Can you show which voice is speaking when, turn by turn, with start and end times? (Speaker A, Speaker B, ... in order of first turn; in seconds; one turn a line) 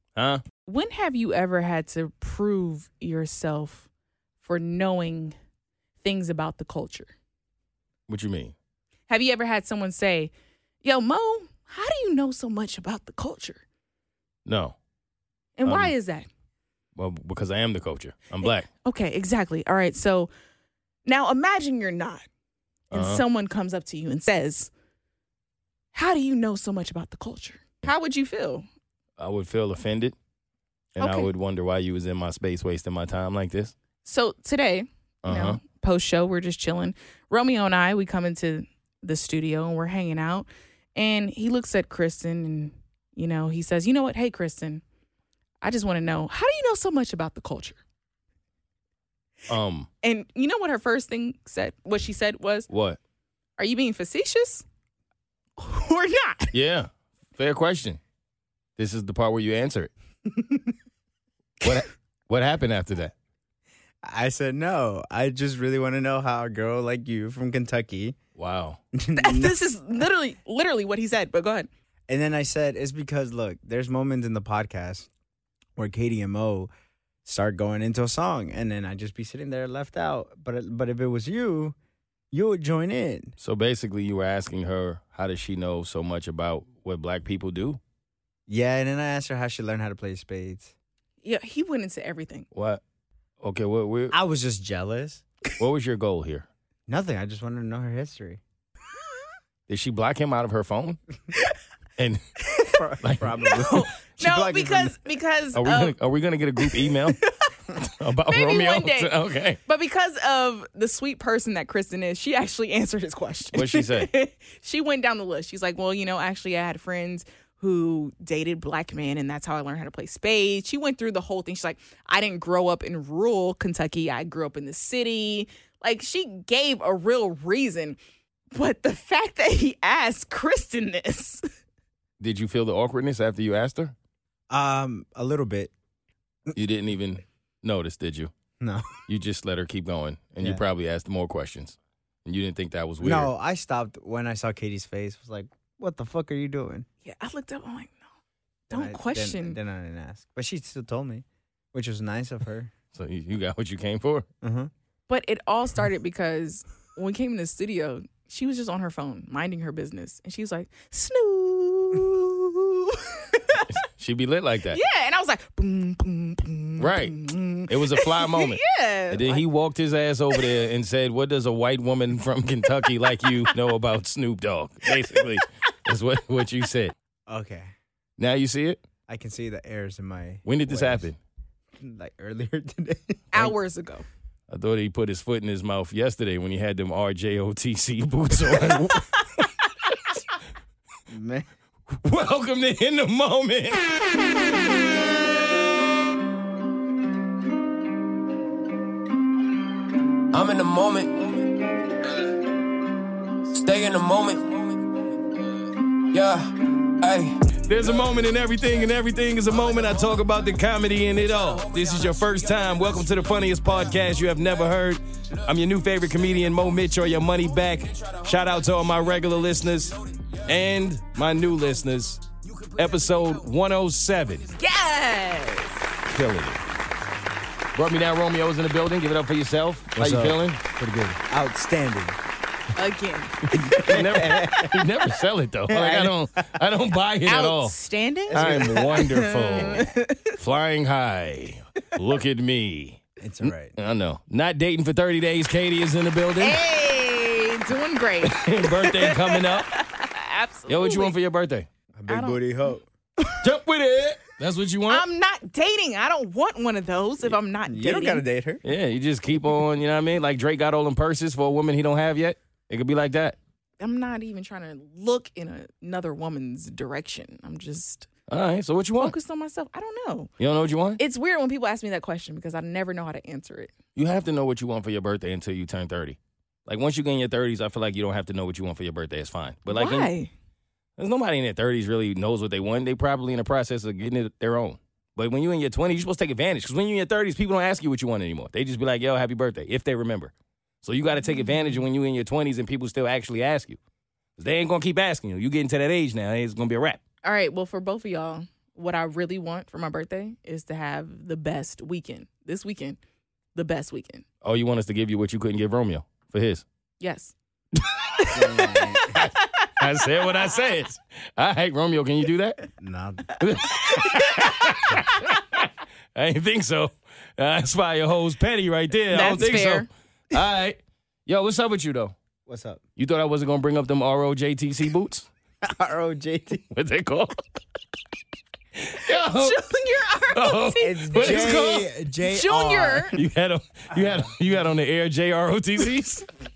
Speaker A: 0.1-0.4
Speaker B: 0.7-3.8
Speaker B: 4.4-5.3
Speaker B: 6.0-7.1
Speaker A: 8.1-8.5
Speaker B: 9.1-10.3
Speaker B: 10.8-13.6
Speaker A: 14.4-14.8
Speaker B: 15.6-16.3
Speaker A: 15.7-15.9
Speaker A: 16.9-18.7
Speaker B: 18.8-20.3
Speaker B: 21.1-22.2
Speaker B: 22.9-24.7
Speaker A: 22.9-23.2
Speaker B: 25.9-28.6
Speaker A: 29.2-30.1
Speaker A: 30.9-33.7
Speaker B: 31.0-31.3
Speaker B: 34.0-44.8
Speaker A: 35.2-35.6
Speaker B: 45.6-47.8
Speaker A: 49.5-49.9
Speaker B: 50.0-52.7
Speaker A: 52.7-53.0
Speaker B: 53.6-54.6
Speaker B: 55.6-56.5
Speaker A: 56.5-58.0
Speaker A: 58.8-59.9
Speaker C: 60.4-60.7
Speaker A: 61.6-63.1
Speaker C: 64.0-68.2
Speaker A: 68.3-68.8
Speaker C: 68.9-69.5
Speaker B: 69.2-71.7
Speaker C: 72.1-75.1
Speaker C: 75.8-76.7
Speaker C: 77.2-81.8
Speaker C: 82.3-83.3
Speaker A: 83.4-87.8
Speaker C: 88.5-90.7
Speaker B: 91.2-92.5
Speaker A: 92.5-92.8
Speaker A: 93.4-94.1
Speaker C: 94.1-95.2
Speaker A: 95.6-96.5
Speaker C: 96.9-98.4
Speaker A: 99.7-101.0
Speaker C: 102.7-104.9
Speaker A: 103.0-103.8
Speaker B: 103.5-105.9
Speaker A: 105.5-107.2
Speaker B: 106.7-107.5
Speaker A: 107.8-109.6
Speaker B: 108.3-128.0
Speaker A: 113.5-114.1
Speaker B: 128.5-131.4
Speaker A: 132.2-133.9
Speaker C: 134.5-135.7
Speaker A: 136.5-138.3
Speaker C: 138.6-138.9
Speaker A: 139.1-143.3
Speaker C: 143.0-146.8
Speaker B: 147.0-148.0
Speaker B: 148.7-149.6
Speaker C: 148.7-152.7
Speaker A: 152.9-154.2
Speaker C: 154.4-154.7
Speaker B: 155.1-163.7
Speaker A: 163.7-164.8
Speaker B: 164.7-169.4
Speaker A: 166.8-176.9
Speaker B: 172.8-173.3
Speaker B: 174.9-175.2
Speaker C: 177.3-177.7
Speaker A: 178.2-178.8
Speaker C: 179.1-181.1
Speaker A: 180.4-181.2
Speaker C: 181.8-183.2
Speaker B: 183.3-184.0
Speaker A: 184.5-189.5
Speaker C: 191.1-191.4
Speaker A: 192.0-193.9
Speaker D: 200.3-201.7
Speaker D: 203.5-204.9
Speaker D: 206.1-208.1
Speaker A: 207.7-224.5
Speaker D: 211.6-212.6
Speaker B: 224.6-225.8
Speaker A: 226.0-226.6
Speaker A: 227.7-231.2
Speaker C: 230.0-230.4
Speaker C: 231.2-232.2
Speaker B: 232.7-233.9
Speaker A: 233.6-237.7
Speaker C: 233.8-234.9
Speaker C: 235.7-236.2
Speaker B: 237.2-240.3
Speaker C: 238.3-239.1
Speaker A: 238.3-246.6
Speaker C: 243.2-243.7
Speaker B: 246.4-251.1
Speaker A: 248.2-249.7
Speaker A: 250.7-251.7
Speaker C: 251.9-252.9
Speaker B: 252.1-252.4
Speaker A: 253.4-255.0
Speaker B: 254.9-258.2
Speaker C: 257.7-258.6
Speaker A: 258.6-263.4
Speaker B: 263.8-268.1
Speaker A: 268.3-269.1
Speaker B: 269.0-270.3
Speaker A: 270.4-271.0
Speaker B: 271.0-273.7
Speaker A: 273.9-280.1
Speaker B: 279.7-280.3
Speaker A: 281.0-290.3
Speaker A: 290.8-293.8
Speaker B: 291.3-291.7
Speaker A: 294.4-297.0
Speaker B: 297.2-303.0
Speaker B: 303.5-304.2
Speaker A: 304.4-306.6
Speaker B: 307.0-307.3
Speaker A: 307.8-308.4
Speaker B: 308.2-309.7
Speaker C: 308.3-309.2
Speaker A: 309.1-312.6
Speaker C: 312.8-313.4
Speaker A: 313.4-322.1
Speaker B: 313.9-315.2
Speaker B: 319.1-319.9
Speaker C: 322.5-322.8
Speaker A: 323.0-325.3
Speaker C: 325.6-326.6
Speaker A: 326.7-327.4
Speaker A: 328.8-329.6
Speaker B: 329.2-331.7
Speaker A: 330.3-331.9
Speaker C: 330.8-333.2
Speaker B: 332.2-333.1
Speaker A: 333.1-336.3